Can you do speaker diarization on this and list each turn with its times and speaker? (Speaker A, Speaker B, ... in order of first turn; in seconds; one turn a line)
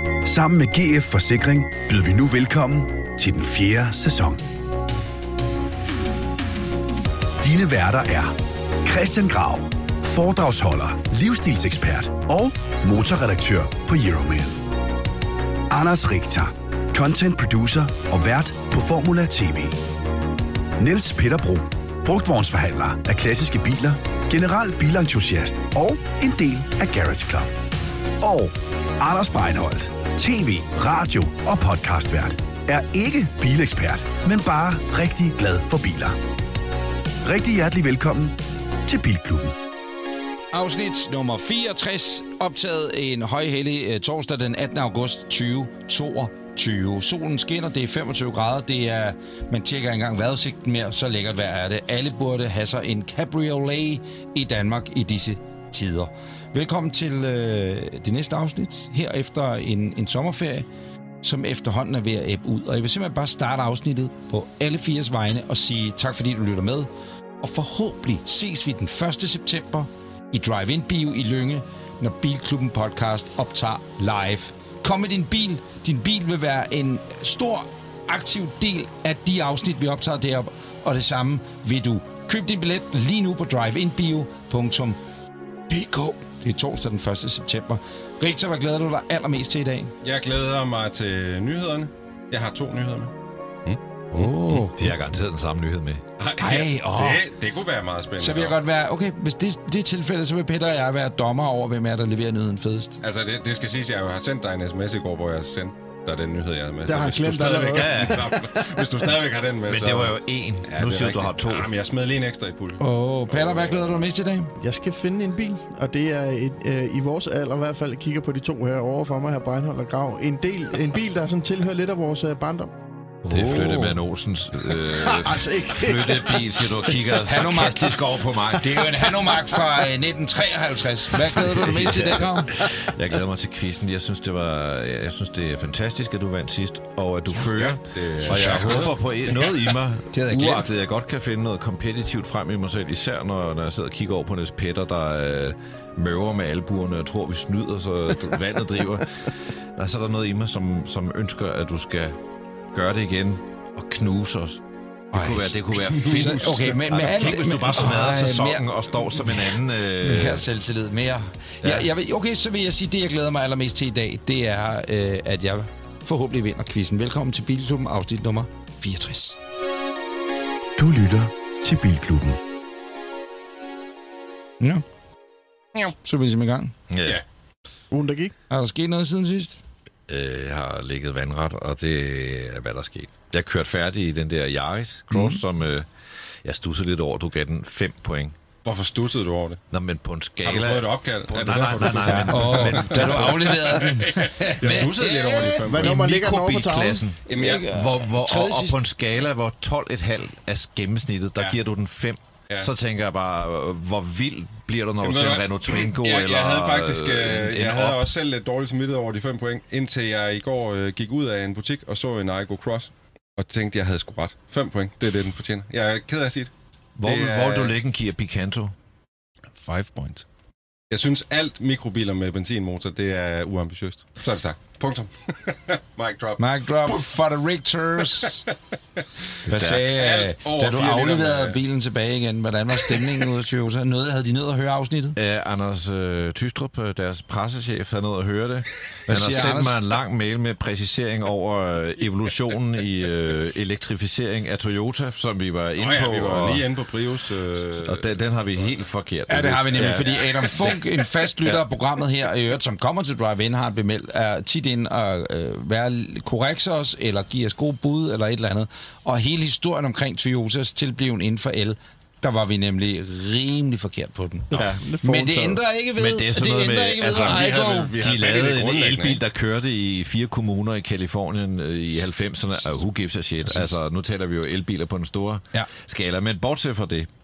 Speaker A: 0.2-4.4
Speaker A: 7.4-14.6
Speaker A: 15.7-19.8
Speaker A: 20.8-27.5
Speaker A: 28.2-36.2
Speaker A: 37.2-39.5
Speaker B: 40.5-60.7
Speaker B: 61.2-66.9
Speaker B: 67.4-85.0
Speaker B: 85.7-89.9
Speaker C: 90.0-93.1
Speaker B: 94.1-94.8
Speaker D: 94.2-96.0
Speaker C: 96.2-98.6
Speaker B: 96.4-97.2
Speaker B: 98.2-103.0
Speaker C: 103.0-112.8
Speaker E: 106.9-108.2
Speaker D: 107.7-108.4
Speaker D: 109.7-111.7
Speaker B: 112.8-114.5
Speaker C: 113.4-113.8
Speaker E: 114.6-122.7
Speaker B: 123.2-124.0
Speaker D: 123.3-129.3
Speaker E: 124.8-127.0
Speaker B: 127.2-132.6
Speaker D: 131.2-152.2
Speaker C: 137.9-138.9
Speaker B: 138.3-138.9
Speaker B: 140.1-140.7
Speaker D: 152.7-160.4
Speaker B: 155.1-169.4
Speaker D: 161.6-161.9
Speaker A: 170.8-172.4
Speaker B: 175.8-176.7
Speaker D: 176.9-177.2
Speaker E: 177.9-178.3
Speaker B: 178.5-179.6
Speaker D: 180.1-185.9
Speaker B: 185.1-185.4
Speaker D: 186.4-188.3
Speaker C: 188.7-189.6
Speaker D: 189.7-193.4
Speaker C: 190.4-196.1
Speaker B: 192.1-195.7
Speaker E: 195.7-197.0
Speaker D: 195.8-208.1
Speaker B: 197.3-198.8
Speaker C: 197.3-197.6
Speaker C: 205.0-216.5
Speaker D: 217.0-218.7
Speaker C: 217.0-217.8
Speaker C: 219.6-220.2
Speaker C: 220.9-227.1
Speaker B: 226.4-228.4
Speaker D: 229.4-229.9
Speaker B: 229.5-235.2
Speaker C: 229.9-231.6
Speaker D: 235.2-246.7
Speaker B: 239.1-239.8
Speaker C: 245.8-248.7
Speaker D: 247.7-250.8
Speaker B: 249.3-267.9
Speaker C: 249.8-250.8
Speaker E: 264.5-265.6
Speaker D: 264.5-264.8
Speaker D: 266.0-277.1
Speaker C: 267.1-269.2